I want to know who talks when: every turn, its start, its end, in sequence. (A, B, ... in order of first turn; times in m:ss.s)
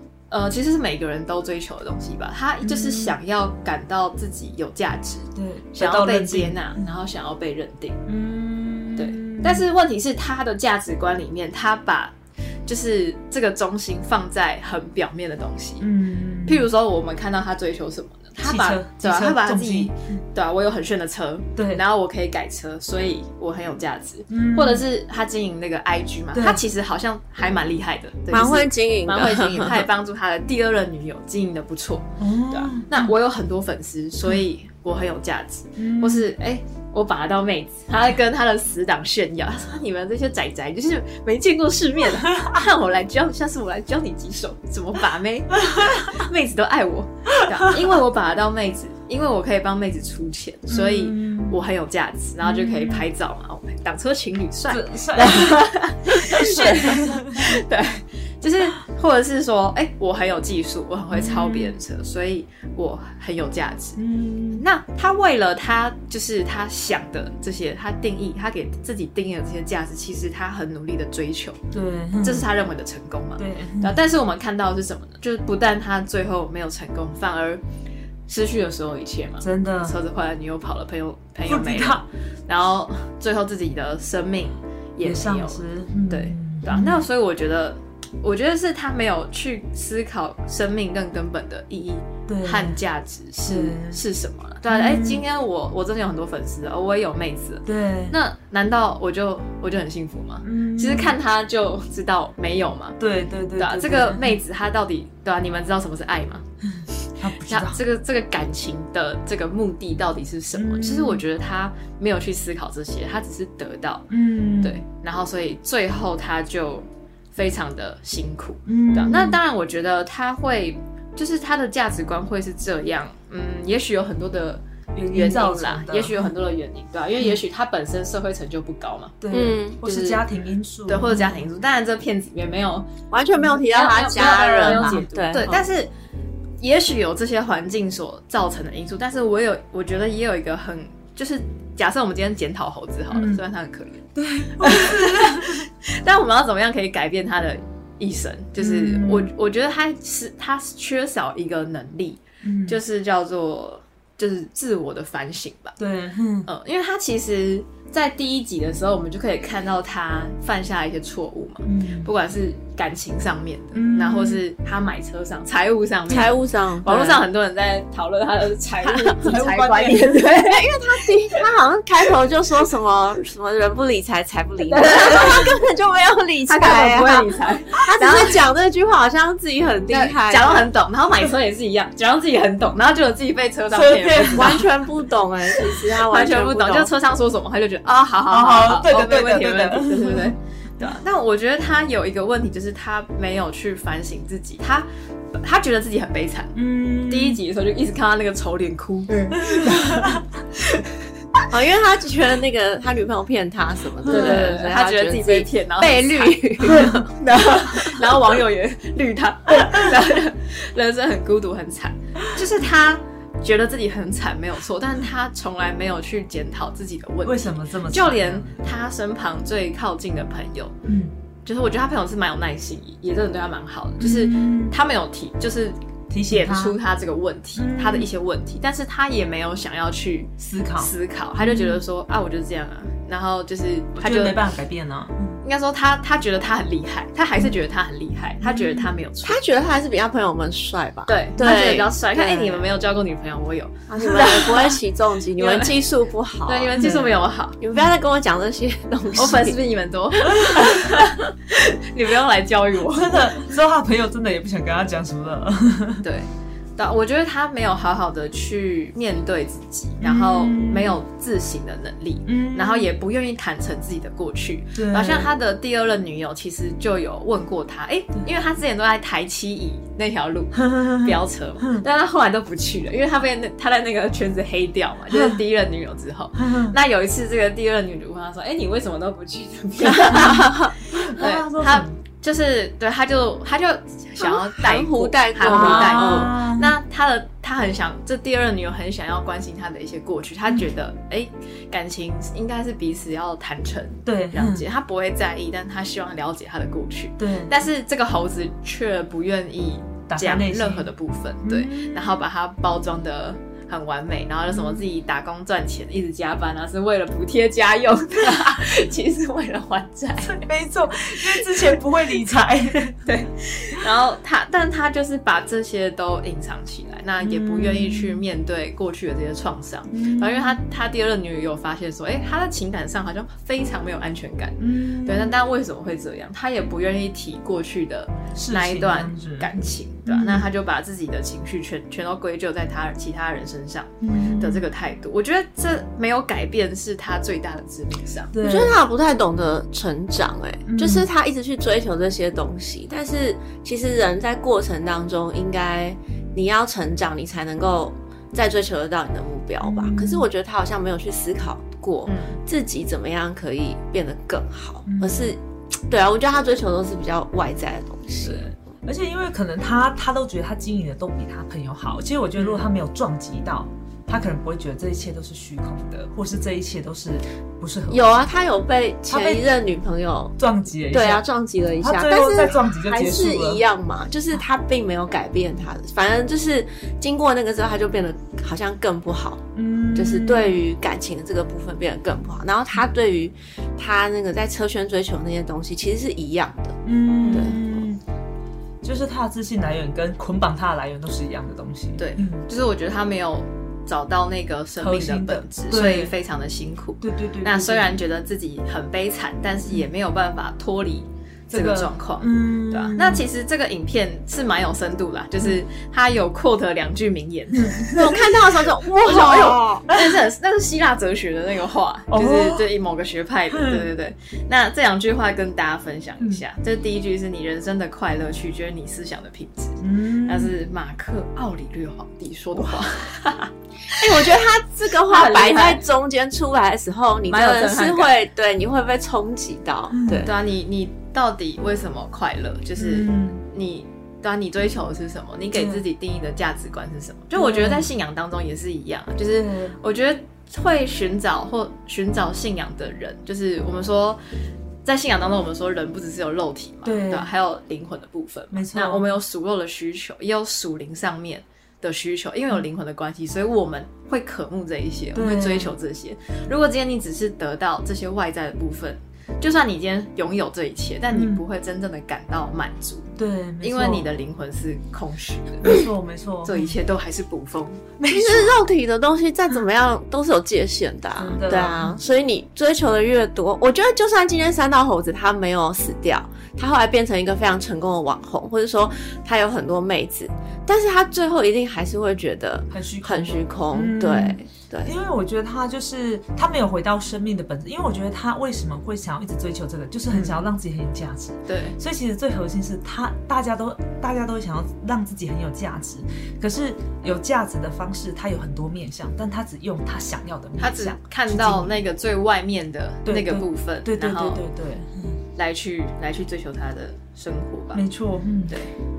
0:00.3-0:08.0 A
0:02.6-0:03.2 B
0:05.4-0:06.8 B
0:08.1-0:09.6 B
0:09.0-0:12.1 A
0:12.6-0:15.8 A
0:15.8-0:16.7 B
0:16.4-1:04.0 A
0:18.4-0:20.2 B
0:21.6-0:21.8 B
0:24.3-0:24.8 B
0:26.3-0:26.6 B
0:28.3-0:29.8 C
0:32.2-0:33.1 B
0:35.8-0:36.3 B
0:45.8-0:46.1 B
0:47.5-0:47.8 B
0:50.7-0:51.6 B
0:52.4-0:53.1 B
0:54.7-0:57.6 B
1:01.1-1:01.7 B
1:04.0-1:04.6 B
1:04.5-1:11.6 A
1:11.7-1:12.5 B
1:12.2-1:17.6 A
1:13.4-1:14.0 B
1:18.3-1:43.0 A
1:19.4-1:20.0 B
1:21.4-1:22.0 B
1:25.0-1:27.0 B
1:32.3-1:32.8 B
1:33.4-1:34.0 B
1:34.7-1:35.2 B
1:37.6-1:38.2 B
1:40.4-1:41.2 B
1:43.0-1:44.4 B
1:43.6-1:46.4 A
1:46.6-1:47.8 B
1:47.4-1:54.1 A
1:50.5-1:51.2 B
1:54.1-1:54.8 B
1:54.6-2:09.2 A
1:58.6-1:59.4 B
2:04.9-2:06.3 B
2:09.2-2:11.5 B
2:09.3-2:09.8 C
2:09.8-2:10.2 A
2:10.9-2:12.9 A
2:13.1-2:15.6 C
2:13.6-2:15.9 A
2:14.2-2:15.0 B
2:16.6-2:24.0 A
2:23.1-2:23.4 B
2:24.1-2:25.7 B
2:24.6-2:35.8 A
2:28.6-2:29.3 B
2:32.4-2:32.8 B
2:35.8-2:36.5 B
2:36.4-2:51.4 A
2:41.6-2:42.1 B
2:43.7-2:44.4 B
2:46.1-2:47.2 C
2:49.2-2:50.2 B
2:50.3-3:00.7 C
2:54.6-2:55.6 A
2:56.5-2:58.4 A
2:59.9-3:04.6 A
3:03.7-3:04.7 B
3:04.3-3:06.9 C
3:05.6-3:20.9 A
3:08.3-3:10.9 B
3:16.5-3:17.4 B
3:19.3-3:20.2 B
3:21.5-3:27.1 C
3:24.0-3:40.7 A
3:24.1-3:24.4 B
3:26.6-3:27.0 B
3:37.2-3:38.7 B
3:40.8-3:41.1 B
3:41.4-3:54.4 A
3:44.0-3:44.8 B
3:46.1-3:46.8 B
3:47.6-3:48.1 B
3:50.4-3:51.8 B
3:54.0-3:55.4 B
3:55.4-3:59.4 A
3:58.4-3:58.9 B
3:59.2-4:02.7 C
4:01.1-4:04.8 A
4:03.9-4:07.0 C
4:05.4-4:05.7 A
4:06.5-4:07.6 A
4:06.8-4:07.1 B
4:07.6-4:09.6 C
4:09.1-4:13.4 A
4:10.4-4:10.7 B
4:12.9-4:16.0 B
4:16.0-4:40.5 A
4:20.0-4:21.0 B
4:22.2-4:22.9 B
4:24.7-4:25.3 B
4:30.6-4:31.8 B
4:35.1-4:35.4 B
4:36.4-4:36.7 B
4:40.1-4:41.9 B
4:40.2-4:40.7 C
4:41.0-5:10.4 A
4:44.2-4:46.3 C
4:45.4-4:46.8 B
4:54.0-4:54.6 B
4:57.2-4:57.5 B
5:00.1-5:00.9 B
5:01.4-5:02.2 B
5:04.5-5:04.8 B
5:10.2-5:13.1 B
5:11.2-5:11.6 A
5:13.0-5:38.3 A
5:17.2-5:18.2 B
5:19.9-5:20.6 B
5:24.6-5:25.3 B
5:28.3-5:30.5 B
5:34.0-5:34.6 B
5:38.3-5:38.8 B
5:38.4-5:58.5 C
5:40.7-5:41.1 B
5:49.6-5:50.3 B
5:52.0-5:52.4 A
5:54.9-5:55.3 B
5:58.2-6:08.2 B
6:02.4-6:02.7 A
6:07.9-6:10.4 C
6:09.1-6:09.5 B
6:10.4-6:11.2 B
6:10.9-6:27.6 C
6:11.8-6:13.6 B
6:19.5-6:20.6 B
6:26.8-6:28.0 B
6:27.2-6:27.6 A
6:28.8-6:32.4 B
6:32.0-6:48.2 A
6:34.8-6:36.1 B
6:37.0-6:37.9 B
6:41.5-6:43.2 B
6:47.6-6:48.2 B
6:47.9-6:49.9 C
6:49.0-7:04.3 A
6:49.1-6:50.1 B
6:52.1-6:52.6 B
6:53.5-6:53.8 B
6:59.8-7:00.5 B
7:03.9-7:10.3 C
7:05.0-7:05.8 A
7:07.3-7:08.1 A
7:09.9-7:10.3 B
7:10.2-7:24.2 A
7:12.8-7:13.4 B
7:15.5-7:15.8 B
7:17.4-7:17.9 B
7:19.3-7:19.8 B
7:24.8-7:45.8 A
7:26.8-7:27.3 B
7:28.5-7:29.1 B
7:35.1-7:35.7 B
7:41.1-7:41.4 B
7:43.2-7:44.1 B
7:45.6-7:46.8 B
7:46.4-7:47.8 A
7:48.0-7:48.6 B
7:48.1-8:04.9 C
7:51.2-7:52.0 B
8:02.7-8:21.8 B
8:10.1-8:10.4 A
8:11.5-8:11.8 A
8:20.6-8:24.4 A
8:23.0-8:25.2 B
8:25.4-8:27.8 A
8:27.7-8:28.6 B